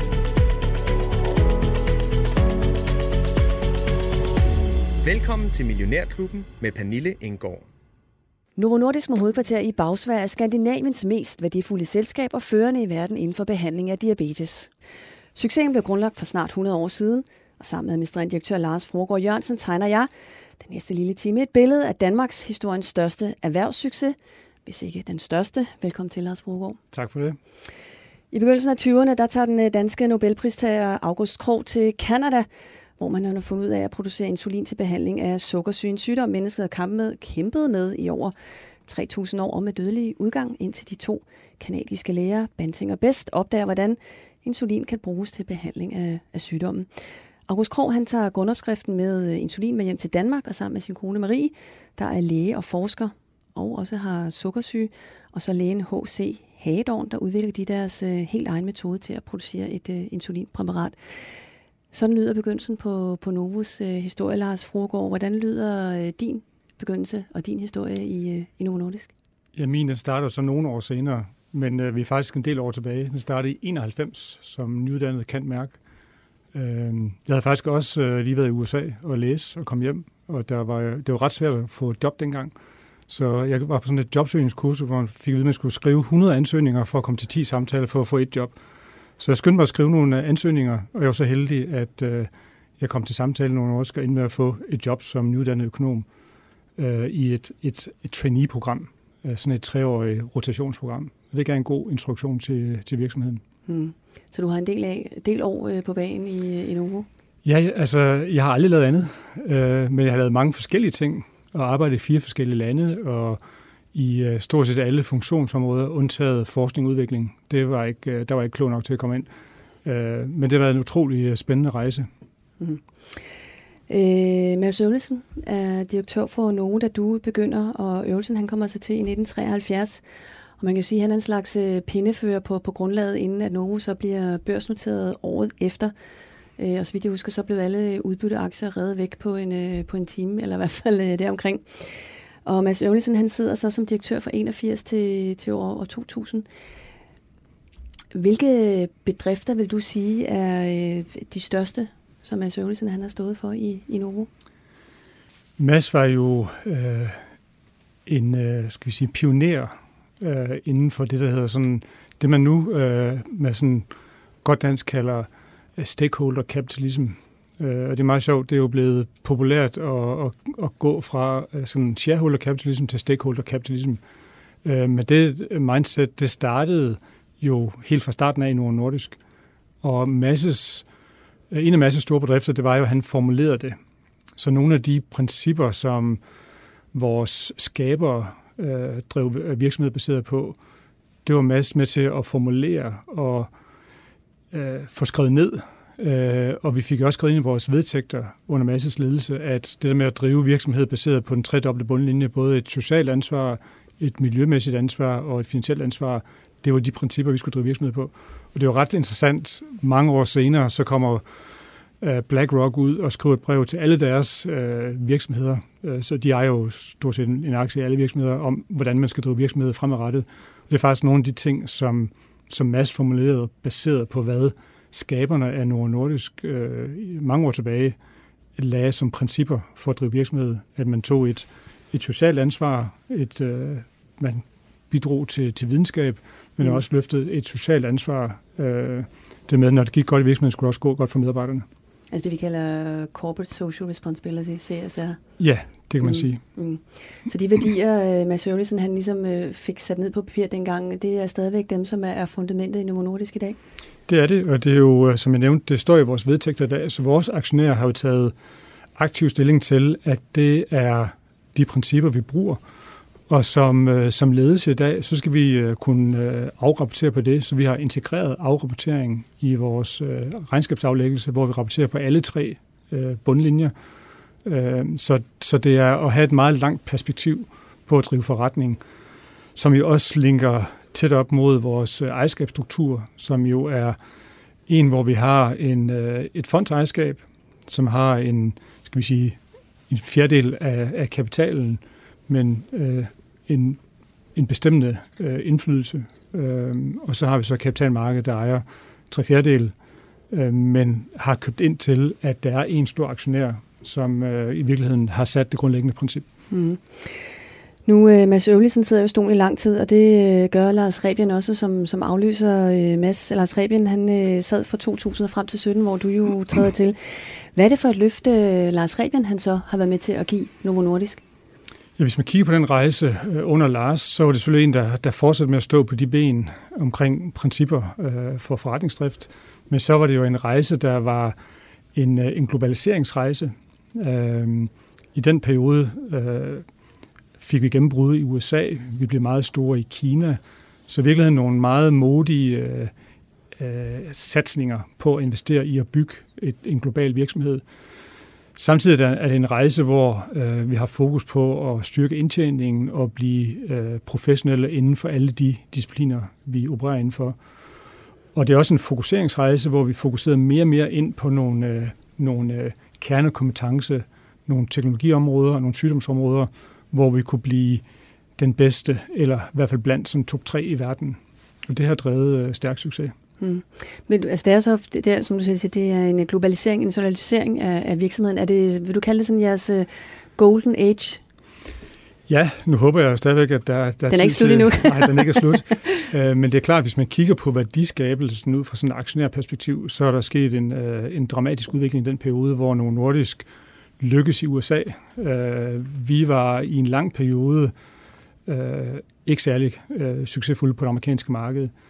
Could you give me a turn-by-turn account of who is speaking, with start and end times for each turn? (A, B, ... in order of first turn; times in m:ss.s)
0:05.0-0:07.6 A
0:08.6-0:14.7 B
0:15.3-0:26.8 B
0:26.9-0:27.4 C
0:28.3-0:32.5 B
0:33.0-0:38.3 B
0:38.8-0:46.9 B
0:47.5-1:01.0 B
1:01.9-1:09.1 B
1:09.6-1:15.8 C
1:16.5-1:22.5 C
1:23.1-1:28.6 C
1:29.2-1:36.0 C
1:36.8-1:43.4 C
1:43.7-1:47.1 B
1:47.4-1:53.4 C
1:53.9-1:59.3 C
1:59.8-2:02.1 C
2:02.6-2:03.2 B
2:03.9-2:10.0 B
2:10.6-2:15.9 B
2:16.6-2:26.4 B
2:28.1-2:34.3 B
2:35.6-2:37.2 C
2:38.0-2:43.9 C
2:44.4-2:54.0 C
2:54.6-2:59.2 C
2:59.8-3:00.8 C
3:01.5-3:03.8 C
3:04.4-3:06.2 C
3:06.9-3:10.6 C
3:11.2-3:13.5 C
3:14.5-3:31.2 C
3:32.0-3:48.0 C
3:48.6-4:01.6 C
4:02.1-4:05.2 B
4:05.4-4:06.4 C
4:06.0-4:13.6 B
4:14.1-4:18.3 C
4:19.0-4:22.6 C
4:23.3-4:33.7 C
4:34.4-4:38.8 C
4:39.6-4:44.0 C
4:44.7-4:53.8 C
4:54.3-4:59.7 C
5:00.3-5:06.2 C
5:06.5-5:21.2 B
5:22.0-5:31.4 C
5:31.9-5:36.6 C
5:37.4-5:42.9 C
5:43.6-5:47.6 C
5:48.6-5:57.4 C
5:58.3-6:07.8 C
6:08.4-6:13.1 C
6:13.4-6:21.2 B
6:22.3-6:33.4 C
6:24.1-6:26.0 B
6:34.0-6:37.7 C
6:38.4-6:41.7 C